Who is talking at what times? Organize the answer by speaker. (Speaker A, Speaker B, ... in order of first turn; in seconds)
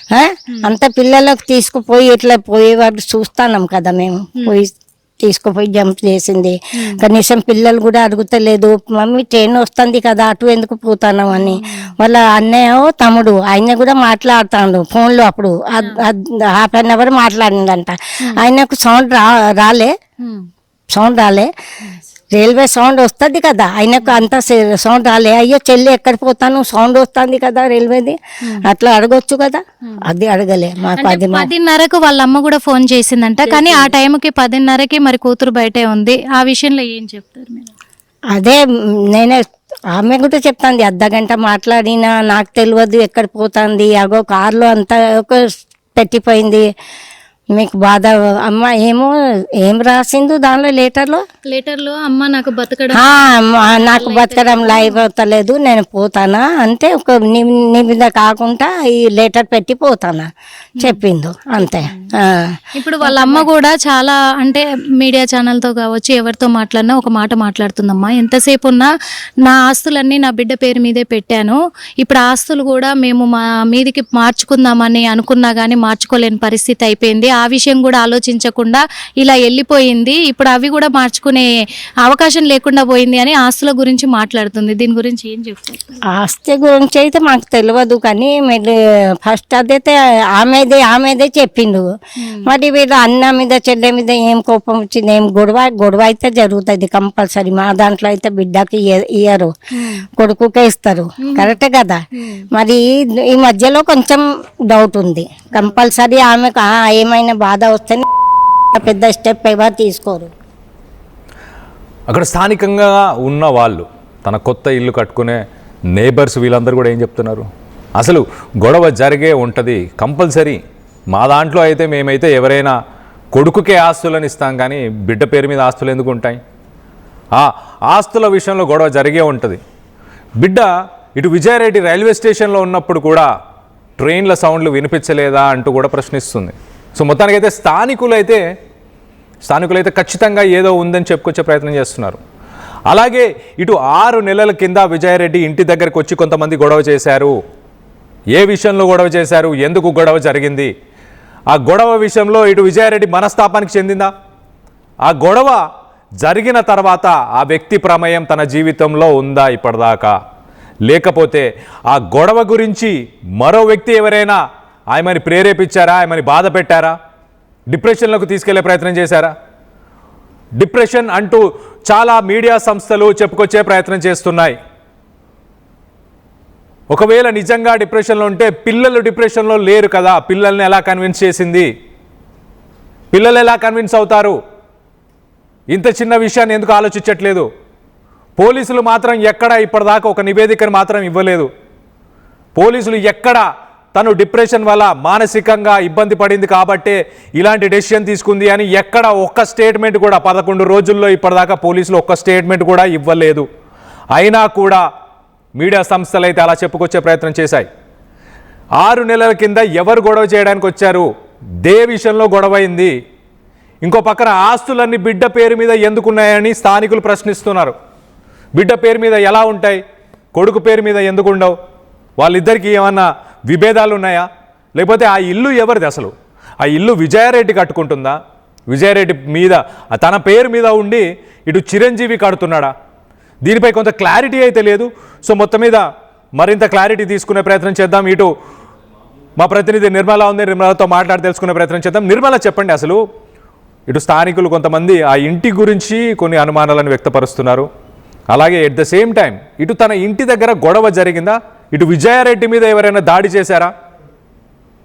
Speaker A: 0.1-19.9, 20.9-21.5, 22.3-28.2, 28.7-31.5, 33.5-33.9, 38.3-38.6, 39.1-39.4, 39.9-45.4, 46.0-46.6, 47.5-49.1, 49.6-51.2, 52.9-60.3, 60.8-62.5, 86.2-91.8, 92.5-99.5, 100.2-102.0, 102.5-108.0, 108.7-110.3
Speaker B: 11.3-11.9, 31.0-37.7, 51.5-55.0, 62.8-68.9, 69.4-81.5, 82.0-85.9, 99.8-100.0, 101.2-101.5
Speaker C: 112.1-115.4, 115.9-120.6, 121.1-122.7, 123.3-126.4, 127.3-129.6, 130.4-133.3, 134.0-138.4, 139.5-142.2, 142.9-147.3, 148.3-150.7, 151.5-154.1, 155.0-155.6, 156.2-160.2, 160.8-164.4, 164.9-166.9, 167.7-169.3, 170.6-174.6, 176.9-181.7, 183.1-184.4, 185.7-187.5, 188.4-191.5, 192.6-193.4, 193.9-203.5, 204.1-204.8, 205.6-207.7, 208.8-211.1, 211.6-212.9, 213.8-217.8, 218.5-219.8, 220.3-221.5, 222.2-228.2, 228.7-232.7, 233.4-235.8, 236.4-238.3, 239.4-243.0, 243.9-247.7, 248.3-253.7